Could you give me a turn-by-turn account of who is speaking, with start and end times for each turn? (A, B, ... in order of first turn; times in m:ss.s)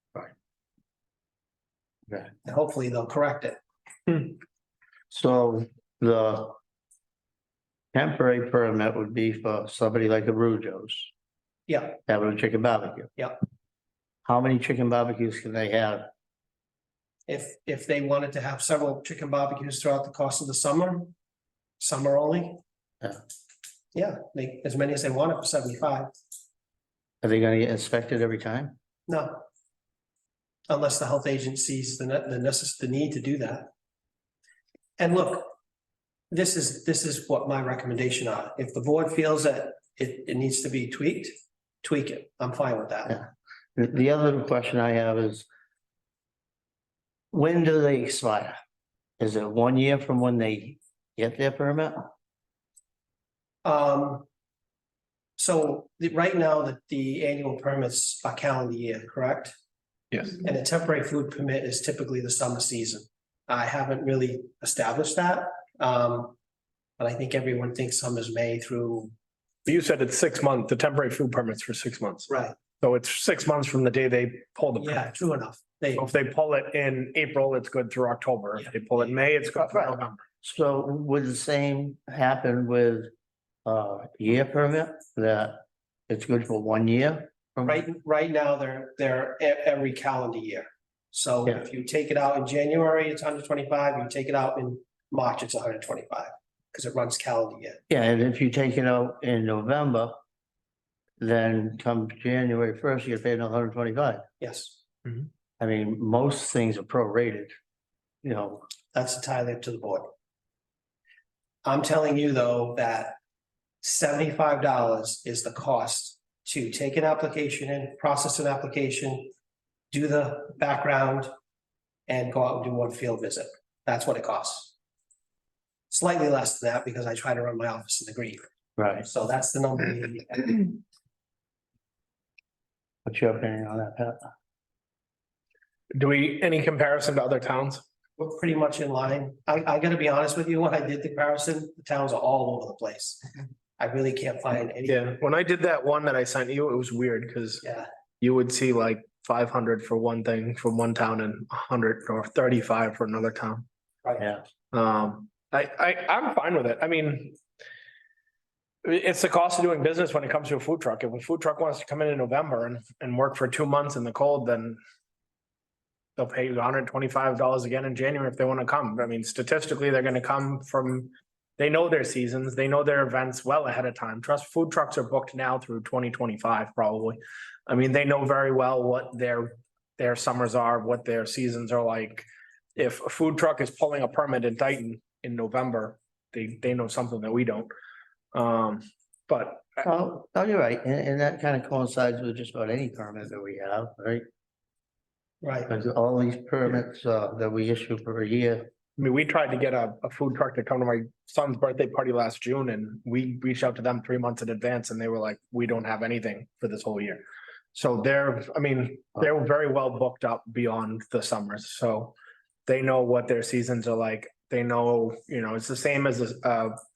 0:02.4-0:03.6 A
0:05.1-0:06.6 B
0:07.9-0:11.1 B
0:11.7-0:12.0 A
0:12.1-0:13.1 B
0:14.2-0:16.1 B
0:17.3-0:21.1 A
0:21.8-0:22.6 A
0:23.9-0:26.1 A
0:27.2-0:28.8 B
0:29.1-0:29.4 A
0:30.7-0:33.7 A
0:35.0-0:35.5 A
0:36.3-0:43.2 A
0:43.1-0:45.5 B
0:47.3-0:48.6 B
0:49.2-0:52.1 B
0:53.6-0:54.3 A
0:55.4-0:59.5 A
1:00.3-1:06.4 A
1:07.0-1:09.1 A
1:09.7-1:15.1 C
1:12.3-1:12.6 A
1:14.8-1:16.1 A
1:16.0-1:20.2 C
1:18.6-1:19.2 A
1:19.6-1:23.1 B
1:23.6-1:27.8 B
1:27.7-1:37.8 A
1:37.9-1:40.2 B
1:41.2-1:44.2 B
1:44.4-1:44.8 A
1:45.6-1:47.5 B
1:48.2-1:48.6 B
1:48.9-1:50.1 A
1:51.6-1:53.2 A
1:53.8-1:59.3 A
1:59.9-2:01.3 A
2:02.1-2:04.7 A
2:05.9-2:08.4 A
2:08.8-2:09.1 B
2:09.0-2:10.8 A
2:13.1-2:14.3 B
2:15.9-2:17.8 C
2:18.2-2:23.2 A
2:23.8-2:25.1 A
2:24.9-2:27.6 C
2:27.6-2:27.9 A
2:28.2-2:33.7 C
2:34.7-2:37.4 C
2:38.8-2:44.8 C
2:46.2-3:07.7 C
3:08.3-3:09.8 C
3:09.8-3:14.2 B
3:15.4-3:15.7 A
3:15.7-3:18.7 B
3:19.0-3:32.1 C
3:32.7-3:36.8 C